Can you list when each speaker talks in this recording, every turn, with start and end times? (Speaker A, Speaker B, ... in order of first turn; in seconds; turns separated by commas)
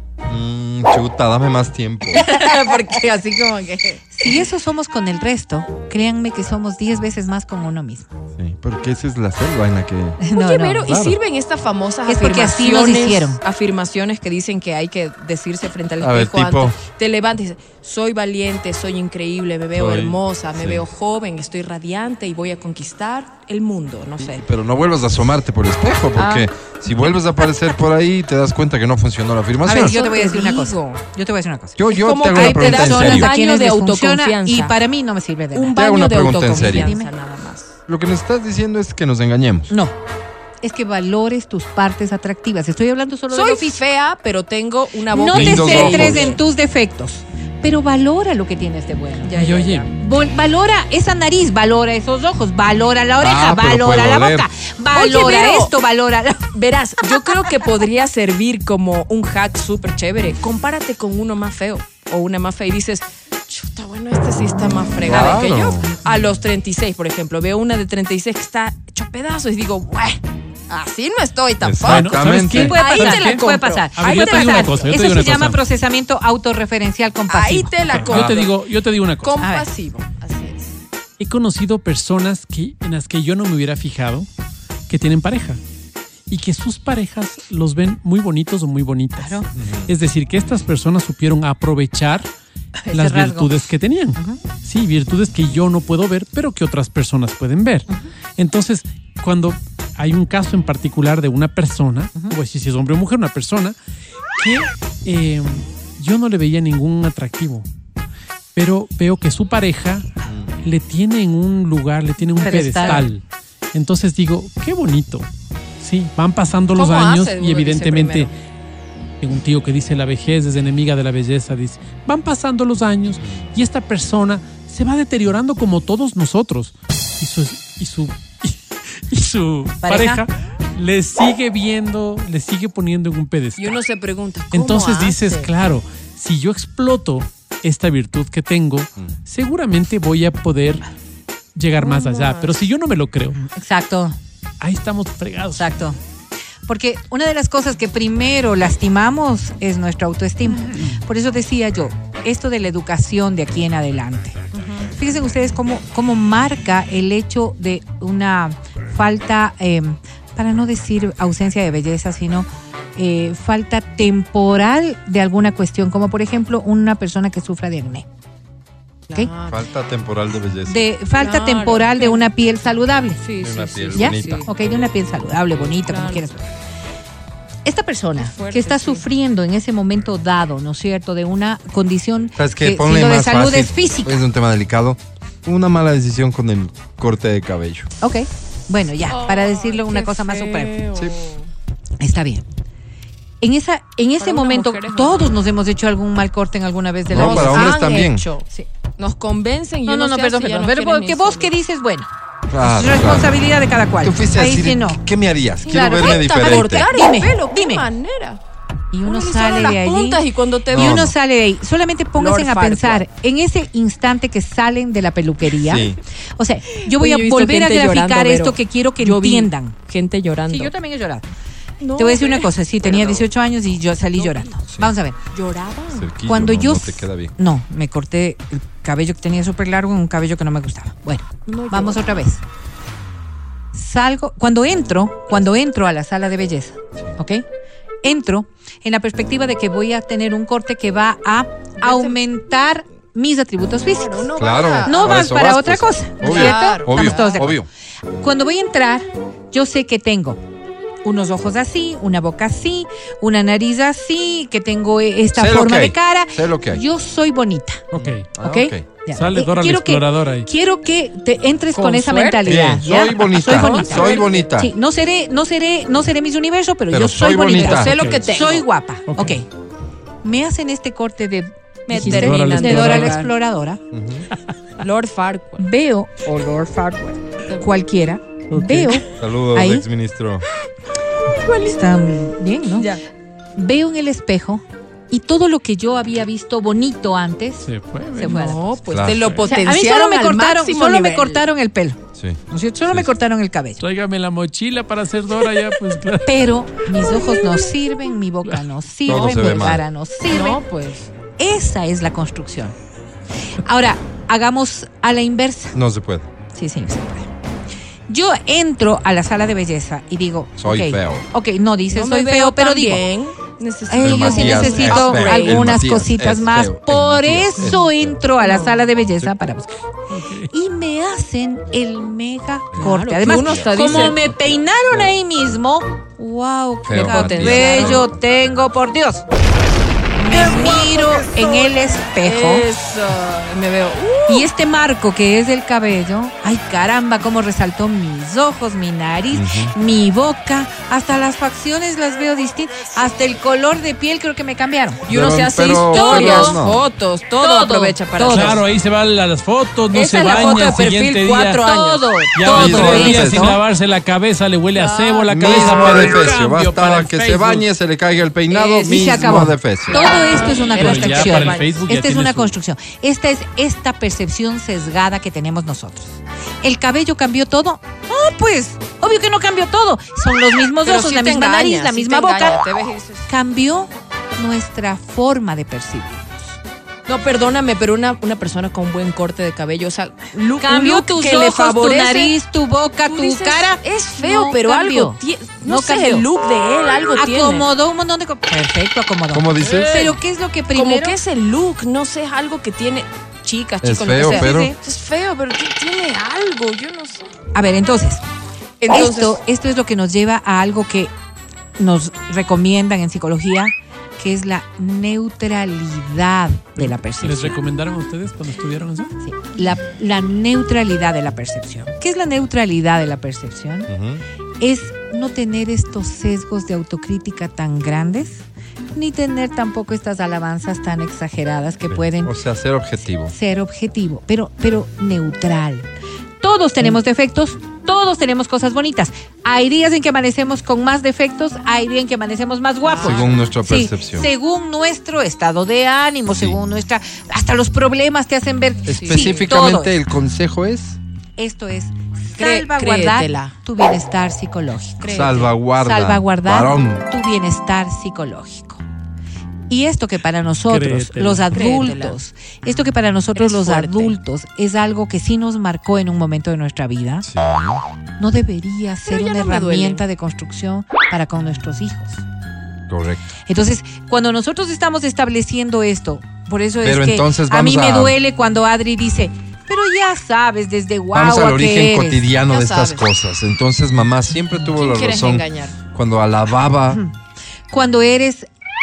Speaker A: 0.3-2.2, Speaker B: 2.1-4.5, Speaker C: 4.2-8.1, Speaker A: 8.4-10.2, Speaker C: 10.2-10.9, Speaker B: 10.3-24.5, Speaker A: 10.9-11.2, Speaker C: 12.1-13.4, Speaker A: 16.0-16.8, Speaker A: 19.8-20.9, Speaker A: 24.2-29.9, Speaker B: 26.2-26.5, Speaker C: 29.6-31.8, Speaker B: 29.7-31.0, Speaker A: 31.8-33.3, Speaker B: 31.9-34.7, Speaker C: 32.3-35.7, Speaker B: 35.5-37.8, Speaker A: 35.7-36.9, Speaker C: 36.5-37.1, Speaker A: 37.9-39.7, Speaker C: 40.6-43.8, Speaker B: 43.3-46.4, Speaker C: 45.1-57.5, Speaker A: 45.3-46.3, Speaker B: 49.2-49.9, Speaker D: 49.3-49.9, Speaker A: 53.2-54.5, Speaker B: 54.9-55.7, Speaker B: 56.5-75.0, Speaker A: 65.0-65.9, Speaker A: 71.6-72.8, Speaker D: 71.8-73.5, Speaker C: 72.5-77.7, Speaker D: 74.0-75.6, Speaker B: 77.3-78.6, Speaker D: 77.9-79.4, Speaker A: 78.0-78.4, Speaker B: 79.2-80.7, Speaker D: 81.2-84.3, Speaker D: 84.9-85.6, Speaker D: 86.3-92.3, Speaker C: 89.2-89.5, Speaker A: 89.5-89.9, Speaker C: 92.8-94.4, Speaker D: 92.9-103.8, Speaker D: 104.4-107.7, Speaker D: 108.5-110.1, Speaker A: 110.2-110.5, Speaker D: 110.6-115.3, Speaker C: 112.4-113.1, Speaker B: 112.4-113.1, Speaker D: 115.8-118.3, Speaker B: 116.7-118.3, Speaker D: 119.2-133.8, Speaker C: 129.8-130.2, Speaker B: 133.6-135.5, Speaker D: 134.5-140.8, Speaker D: 141.5-143.4, Speaker B: 141.8-142.7, Speaker C: 143.4-144.2, Speaker D: 144.6-145.7, Speaker C: 145.5-146.0, Speaker C: 146.7-154.4, Speaker B: 154.5-154.9, Speaker C: 154.9-168.1, Speaker B: 169.1-169.6, Speaker A: 169.5-170.8, Speaker C: 170.7-173.2, Speaker B: 171.2-172.3, Speaker B: 173.2-174.5, Speaker A: 173.4-174.5, Speaker C: 173.9-176.5, Speaker B: 175.8-176.2, Speaker C: 177.7-184.2, Speaker B: 178.2-179.1, Speaker A: 182.4-187.9, Speaker C: 188.0-190.8, Speaker B: 189.1-191.5, Speaker C: 192.0-192.4, Speaker C: 193.4-198.0, Speaker B: 194.2-195.3, Speaker A: 197.1-198.2, Speaker B: 197.1-201.5, Speaker C: 199.9-202.1, Speaker A: 202.5-203.4, Speaker C: 202.6-205.0, Speaker A: 204.0-206.8, Speaker C: 205.7-207.9, Speaker B: 205.7-208.4, Speaker C: 208.9-219.8, Speaker B: 209.0-211.1, Speaker A: 210.7-211.1, Speaker B: 212.2-213.0, Speaker A: 215.6-216.0, Speaker B: 216.8-220.7, Speaker C: 220.5-221.2, Speaker B: 221.8-223.3, Speaker C: 222.0-225.2, Speaker B: 224.2-224.5, Speaker B: 225.3-226.1, Speaker A: 225.9-227.3, Speaker C: 226.3-232.4, Speaker B: 231.5-232.2, Speaker C: 233.7-237.4, Speaker C: 238.0-244.3, Speaker B: 241.8-242.2, Speaker B: 243.9-245.2, Speaker A: 244.4-247.7, Speaker C: 244.8-247.6, Speaker B: 246.2-247.5, Speaker C: 248.2-250.4, Speaker C: 251.0-257.9, Speaker A: 255.3-256.8, Speaker D: 257.9-258.2, Speaker A: 257.9-258.9, Speaker C: 258.4-269.5, Speaker D: 259.1-260.5, Speaker B: 261.7-262.4, Speaker A: 262.4-264.7, Speaker B: 263.5-264.5, Speaker A: 266.9-267.9, Speaker B: 267.5-268.6, Speaker D: 267.9-268.3, Speaker D: 269.1-269.4, Speaker C: 270.2-273.8, Speaker B: 271.9-273.3, Speaker D: 271.9-273.2, Speaker A: 273.9-274.3, Speaker B: 274.8-275.6, Speaker C: 275.6-279.9, Speaker D: 278.5-279.0, Speaker A: 279.1-280.4, Speaker B: 281.3-281.8, Speaker C: 281.6-283.0, Speaker C: 283.6-288.6, Speaker D: 287.6-289.5, Speaker B: 288.2-291.4, Speaker A: 288.9-289.2, Speaker C: 289.4-293.8, Speaker A: 292.2-293.1, Speaker D: 293.8-296.4, Speaker C: 296.2-300.6, Speaker A: 299.1-299.8, Speaker B: 300.3-301.1, Speaker C: 301.4-302.8, Speaker C: 303.6-305.8, Speaker A: 305.7-306.3, Speaker C: 306.5-307.3, Speaker C: 308.1-313.0, Speaker A: 310.6-311.2, Speaker B: 311.9-315.8, Speaker C: 313.9-319.7, Speaker A: 314.0-318.2, Speaker B: 318.4-318.8, Speaker D: 320.1-320.5, Speaker C: 320.5-329.2, Speaker A: 322.7-324.2, Speaker B: 322.8-324.2, Speaker A: 326.9-328.2, Speaker B: 327.0-328.1, Speaker B: 330.2-334.5, Speaker C: 330.2-332.7, Speaker C: 334.3-345.0, Speaker A: 339.3-339.7, Speaker A: 345.1-346.8, Speaker B: 345.1-348.6, Speaker C: 345.9-346.6, Speaker C: 347.4-348.6, Speaker D: 348.3-351.6, Speaker B: 349.9-352.1, Speaker C: 351.6-353.6, Speaker D: 352.3-357.7, Speaker A: 352.4-353.6, Speaker B: 354.7-356.3, Speaker A: 355.3-360.0, Speaker B: 358.5-359.1, Speaker C: 358.8-372.6, Speaker B: 359.9-361.8, Speaker D: 360.7-362.5, Speaker B: 370.8-373.3, Speaker C: 373.3-376.6, Speaker B: 377.1-382.4, Speaker C: 380.6-386.3, Speaker B: 383.1-387.7, Speaker C: 387.2-391.2, Speaker A: 389.3-390.0, Speaker B: 389.6-390.2, Speaker B: 390.7-397.2, Speaker A: 393.8-394.7, Speaker C: 394.2-394.8, Speaker C: 397.5-398.2, Speaker B: 398.8-399.4, Speaker C: 398.9-401.1, Speaker C: 401.8-407.6, Speaker D: 406.8-409.1, Speaker C: 409.2-413.9, Speaker A: 413.9-414.2, Speaker C: 414.6-422.4, Speaker A: 421.9-423.3, Speaker C: 423.3-425.9, Speaker C: 426.4-440.0, Speaker B: 432.8-433.3, Speaker A: 433.0-434.3, Speaker A: 436.3-436.6, Speaker A: 438.9-441.0, Speaker B: 439.0-439.5, Speaker C: 441.4-448.8, Speaker B: 442.4-443.5, Speaker B: 445.0-445.5, Speaker A: 445.1-447.0, Speaker C: 449.7-457.3, Speaker D: 450.7-451.6, Speaker B: 451.5-452.2, Speaker B: 453.4-454.1, Speaker A: 457.2-457.8, Speaker C: 458.2-462.2, Speaker B: 459.1-460.0, Speaker A: 462.9-463.3, Speaker C: 463.5-472.2, Speaker A: 466.8-468.2, Speaker A: 471.1-477.0, Speaker B: 472.5-473.0, Speaker B: 474.7-475.8, Speaker C: 477.7-478.5